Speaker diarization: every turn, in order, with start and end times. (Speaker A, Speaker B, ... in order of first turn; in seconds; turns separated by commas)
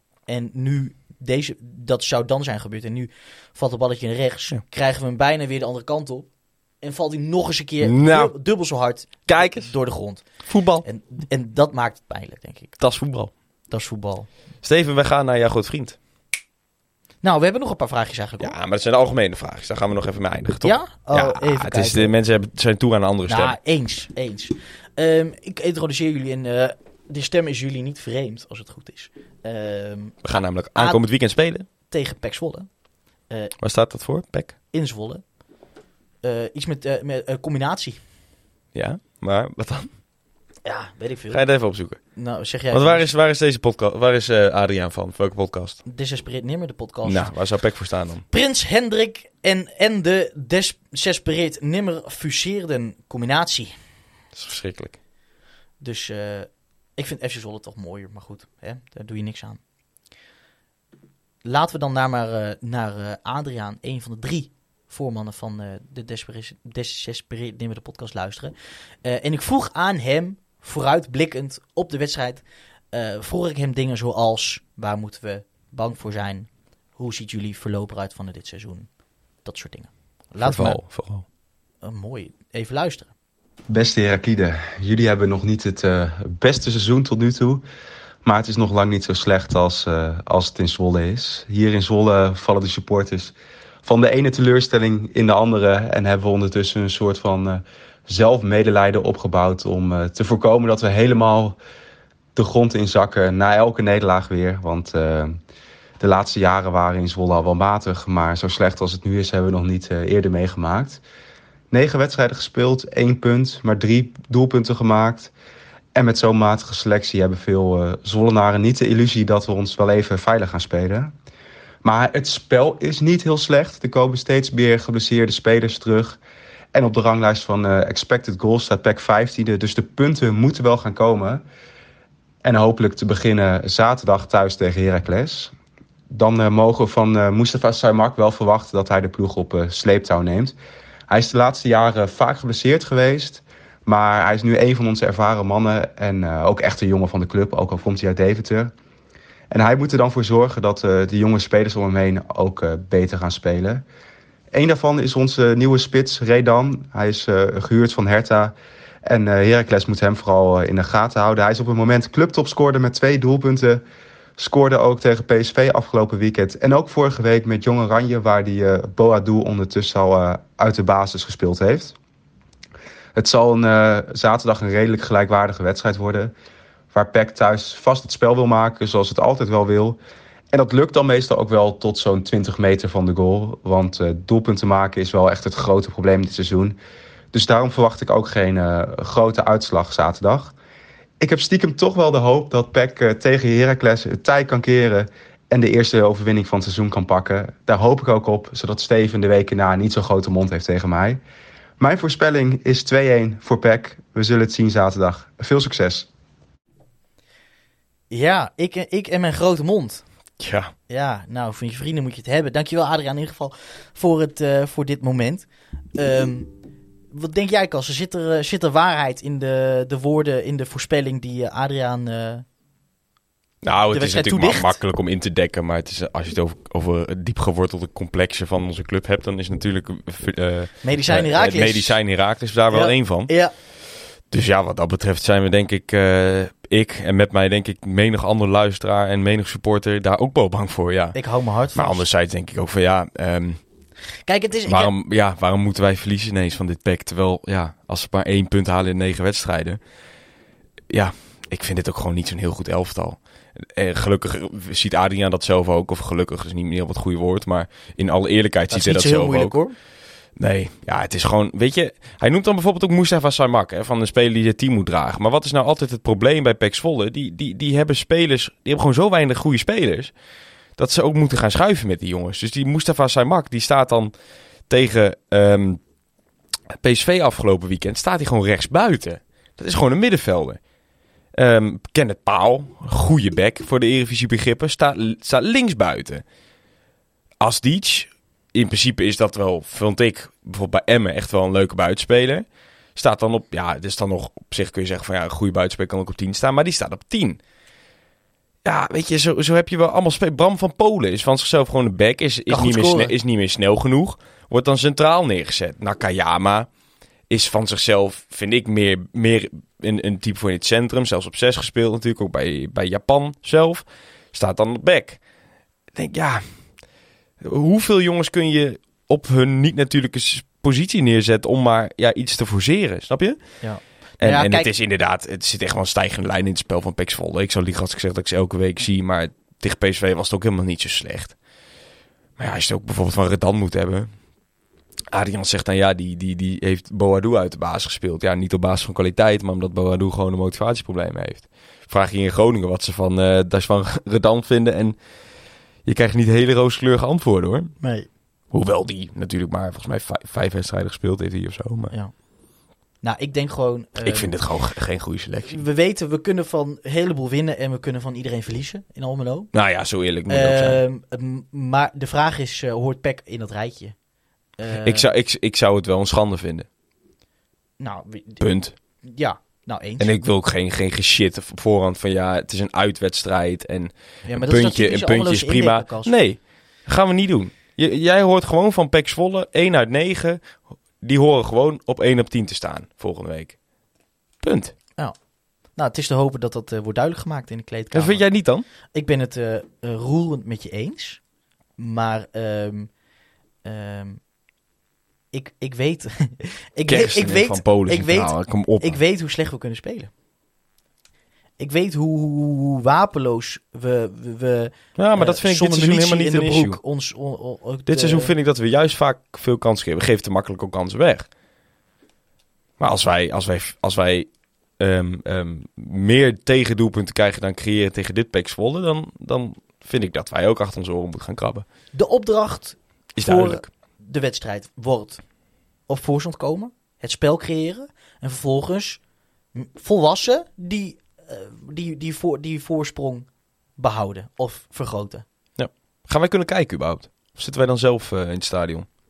Speaker A: 0.3-12.8, Speaker B: 7.8-8.3, Speaker B: 9.3-9.7, Speaker B: 10.4-10.8, Speaker B: 12.8-13.3, Speaker A: 13.7-14.3, Speaker B: 14.6-16.0, Speaker A: 17.2-18.5, Speaker B: 18.4-23.6, Speaker A: 20.6-22.1, Speaker A: 23.3-30.2, Speaker B: 30.2-31.7, Speaker A: 30.8-31.0, Speaker A: 31.8-32.7, Speaker B: 33.6-34.5, Speaker A: 34.7-35.3, Speaker A: 36.2-38.0, Speaker B: 38.7-39.9, Speaker A: 40.6-41.4, Speaker B: 41.3-42.0, Speaker A: 42.2-43.1, Speaker B: 42.7-45.8, Speaker A: 45.9-47.3, Speaker B: 47.0-48.2, Speaker A: 48.3-53.7, Speaker B: 54.3-55.0, Speaker A: 55.8-59.6, Speaker A: 61.4-78.9, Speaker A: 79.4-80.8, Speaker B: 80.4-81.2, Speaker A: 81.8-83.1, Speaker C: 83.7-87.6, Speaker C: 88.2-93.3, Speaker C: 93.8-101.6, Speaker C: 102.3-105.4, Speaker C: 106.0-111.0, Speaker C: 111.7-115.3, Speaker C: 116.0-121.1, Speaker C: 121.8-126.2, Speaker C: 126.7-131.4, Speaker C: 132.4-135.5, Speaker C: 136.1-140.6, Speaker C: 141.1-148.7, Speaker C: 149.5-153.8, Speaker C: 154.5-158.5, Speaker C: 159.1-163.8, Speaker C: 164.4-171.9, Speaker C: 173.2-176.3, Speaker C: 176.9-180.0, Speaker C: 180.5-186.8, Speaker C: 187.3-190.5, Speaker C: 191.2-201.2, Speaker C: 201.8-206.1, Speaker A: 208.1-210.1, Speaker B: 210.4-210.7, Speaker A: 210.9-216.5, Speaker A: 217.1-222.4, Speaker B: 223.6-233.3, Speaker A: 223.9-224.8, Speaker A: 230.8-232.0, Speaker A: 232.7-233.5, Speaker B: 234.3-241.2, Speaker A: 241.2-242.0, Speaker B: 241.8-243.6, Speaker A: 244.3-244.9, Speaker B: 244.7-249.8, Speaker B: 250.9-259.6, Speaker A: 258.7-259.8, Speaker B: 260.4-270.1, Speaker B: 270.8-274.1, Speaker B: 274.7-275.8, Speaker B: 276.8-280.6, Speaker B: 281.3-286.2, Speaker B: 287.4-297.4, Speaker B: 298.6-306.7, Speaker A: 302.5-303.1, Speaker B: 307.3-315.2, Speaker B: 315.9-316.9, Speaker B: 317.4-323.6, Speaker A: 323.6-324.7, Speaker B: 324.2-331.4, Speaker B: 332.4-334.1, Speaker B: 335.1-345.0, Speaker B: 345.9-347.8, Speaker A: 347.8-348.1, Speaker B: 348.5-351.9, Speaker A: 353.0-354.3, Speaker B: 354.0-355.6, Speaker A: 355.5-359.5, Speaker B: 359.5-360.8, Speaker A: 360.3-363.9, Speaker A: 364.6-365.1, Speaker B: 364.8-366.7, Speaker A: 367.8-368.5, Speaker B: 368.4-368.8, Speaker A: 369.0-370.1, Speaker B: 370.0-383.6, Speaker A: 374.2-376.1, Speaker B: 384.4-384.8, Speaker A: 385.8-388.3, Speaker B: 387.9-388.7, Speaker A: 388.9-391.2, Speaker A: 391.8-392.9, Speaker A: 393.6-394.2, Speaker A: 395.3-400.1, Speaker B: 396.9-399.0, Speaker A: 401.6-408.3, Speaker B: 405.0-406.8, Speaker B: 407.9-411.3, Speaker B: 412.8-421.6, Speaker A: 421.9-425.2, Speaker B: 423.2-423.6, Speaker A: 425.9-429.0, Speaker A: 429.5-435.2, Speaker B: 435.6-438.9